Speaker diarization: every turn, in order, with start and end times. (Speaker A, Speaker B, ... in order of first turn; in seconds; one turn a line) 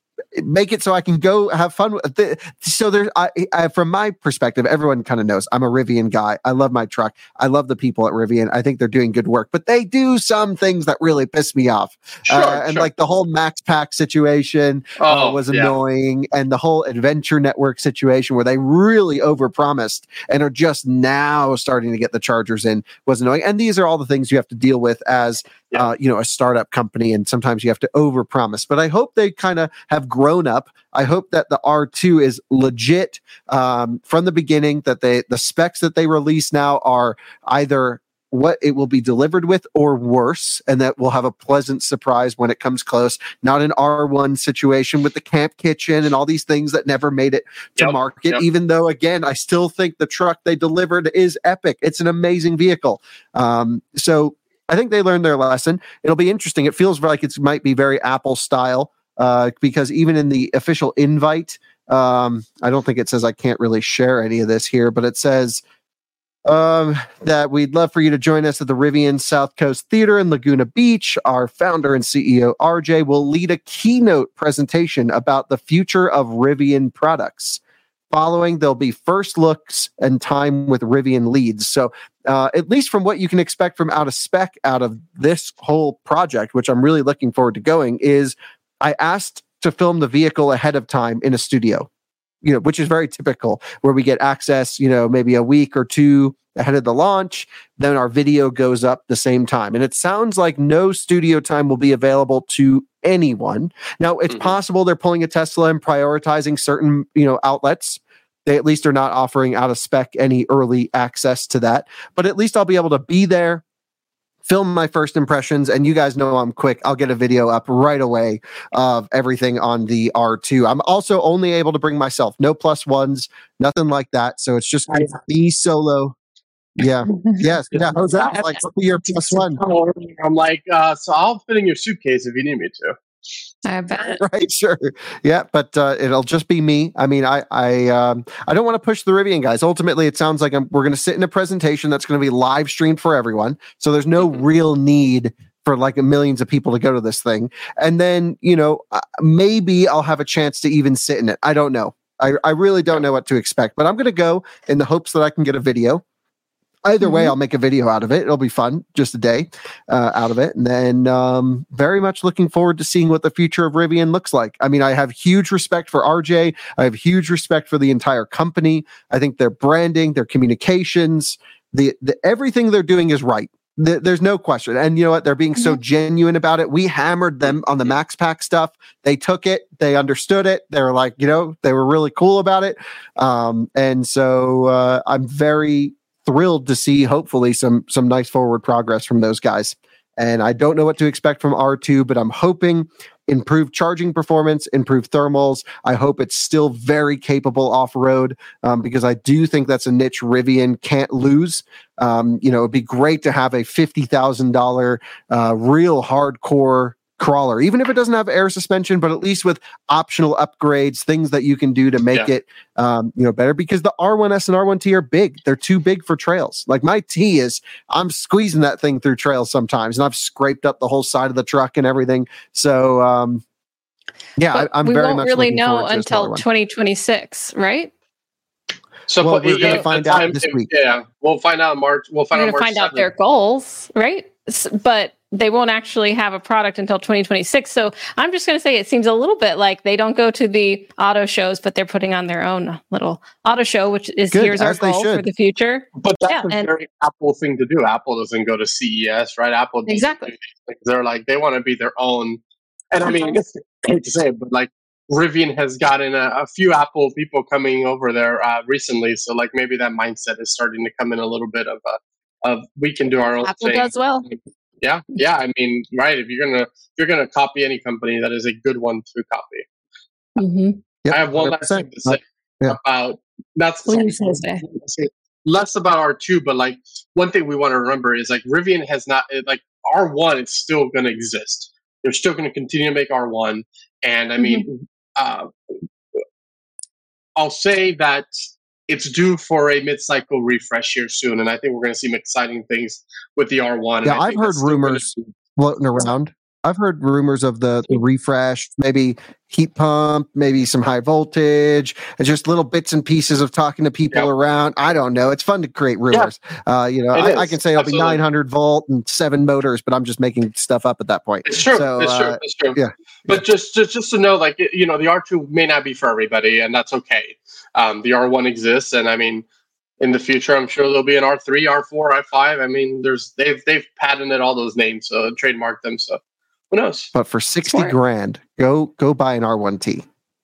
Speaker A: 0.3-65.6
Speaker B: 12.3-12.9
Speaker B: 15.0-15.7
Speaker B: 47.8-48.4
Speaker A: 66.5-77.6
Speaker A: 78.1-91.9
Speaker A: 92.4-113.6
Speaker A: 114.5-126.2
Speaker A: 126.8-129.6
Speaker C: 127.1-127.4
Speaker B: 127.7-128.5
Speaker B: 129.1-133.0
Speaker C: 133.7-134.2
Speaker A: 134.0-156.0
Speaker A: 156.8-223.4
Speaker C: 157.0-157.3
Speaker A: 224.4-226.4
Speaker C: 224.5-227.9
Speaker B: 229.1-233.1
Speaker A: 229.2-230.7
Speaker C: 232.3-246.7
Speaker A: 244.3-245.3
Speaker B: 246.0-252.4
Speaker C: 249.9-250.3
Speaker B: 252.9-269.7
Speaker C: 253.1-253.4
Speaker C: 263.4-264.3
Speaker C: 270.4-270.8
Speaker A: 271.1-272.8
Speaker B: 271.1-285.5
Speaker C: 273.9-274.6
Speaker C: 284.4-284.6
Speaker B: 287.4-288.3
Speaker B: 288.9-295.3
Speaker A: 294.0-313.4
Speaker B: 307.1-308.2
Speaker B: 311.5-319.4
Speaker B: 320.0-326.2
Speaker B: 326.7-327.1
Speaker A: 327.1-330.1
Speaker C: 327.6-327.9